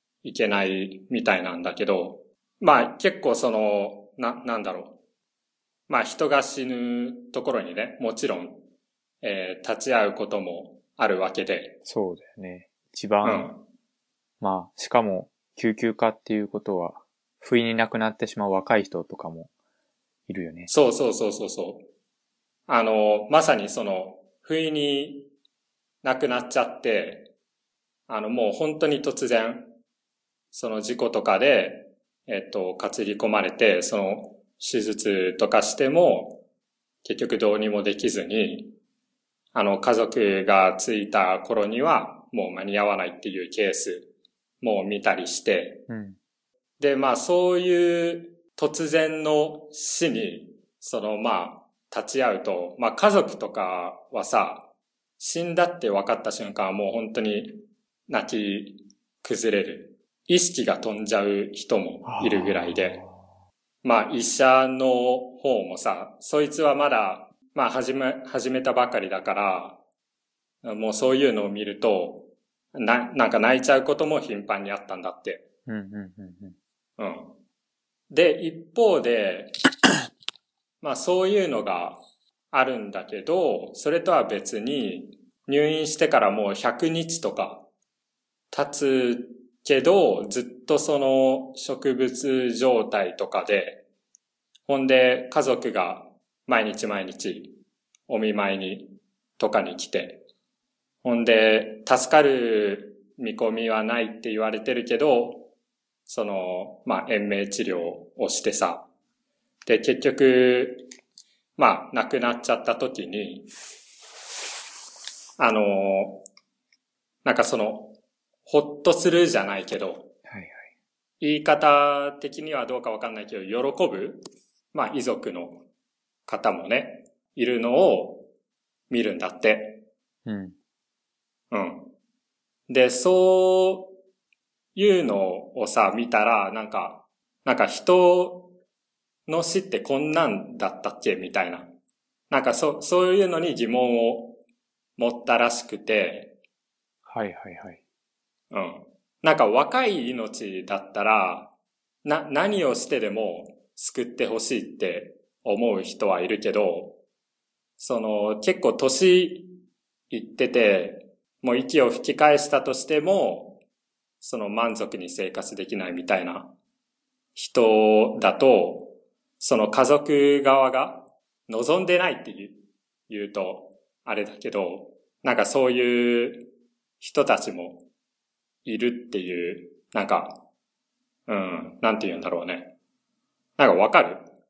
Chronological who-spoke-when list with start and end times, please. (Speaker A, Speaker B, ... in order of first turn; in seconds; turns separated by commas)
Speaker A: 0.2-5.0, Speaker A: 5.9-8.6, Speaker A: 9.2-11.8, Speaker B: 11.8-13.5, Speaker A: 13.2-13.6, Speaker B: 14.4-19.5, Speaker B: 20.3-20.7, Speaker A: 20.7-21.9, Speaker A: 22.7-25.3, Speaker A: 26.0-27.3, Speaker A: 28.1-29.7, Speaker A: 30.5-36.4, Speaker A: 37.0-38.7, Speaker A: 39.5-44.1, Speaker A: 44.6-45.9, Speaker B: 45.9-46.2, Speaker A: 46.8-54.7, Speaker A: 55.2-63.0, Speaker B: 62.0-63.2, Speaker A: 63.8-69.8, Speaker A: 70.6-75.4, Speaker B: 75.7-76.6, Speaker A: 77.0-77.3, Speaker A: 78.1-79.5, Speaker A: 80.8-82.0, Speaker A: 82.5-87.7, Speaker A: 88.5-93.8, Speaker A: 94.7-97.5, Speaker A: 98.1-100.2, Speaker A: 101.0-105.5, Speaker A: 106.1-108.8, Speaker A: 109.7-110.8, Speaker A: 111.6-113.5, Speaker A: 115.4-116.2, Speaker A: 117.2-120.1, Speaker B: 120.3-120.6, Speaker A: 121.2-124.2, Speaker A: 124.7-125.6, Speaker A: 126.2-128.3, Speaker A: 128.9-129.8, Speaker B: 130.2-130.6, Speaker A: 131.5-131.9, Speaker A: 132.7-133.9, Speaker A: 134.7-138.5, Speaker A: 139.3-141.7, Speaker A: 142.3-144.4, Speaker A: 145.0-146.3, Speaker B: 147.1-147.8, Speaker A: 148.5-151.5, Speaker A: 152.0-157.0, Speaker A: 157.8-159.5, Speaker A: 160.1-163.6, Speaker A: 164.2-166.5, Speaker A: 167.3-177.8, Speaker A: 178.6-180.4, Speaker A: 181.3-182.7, Speaker A: 183.6-184.2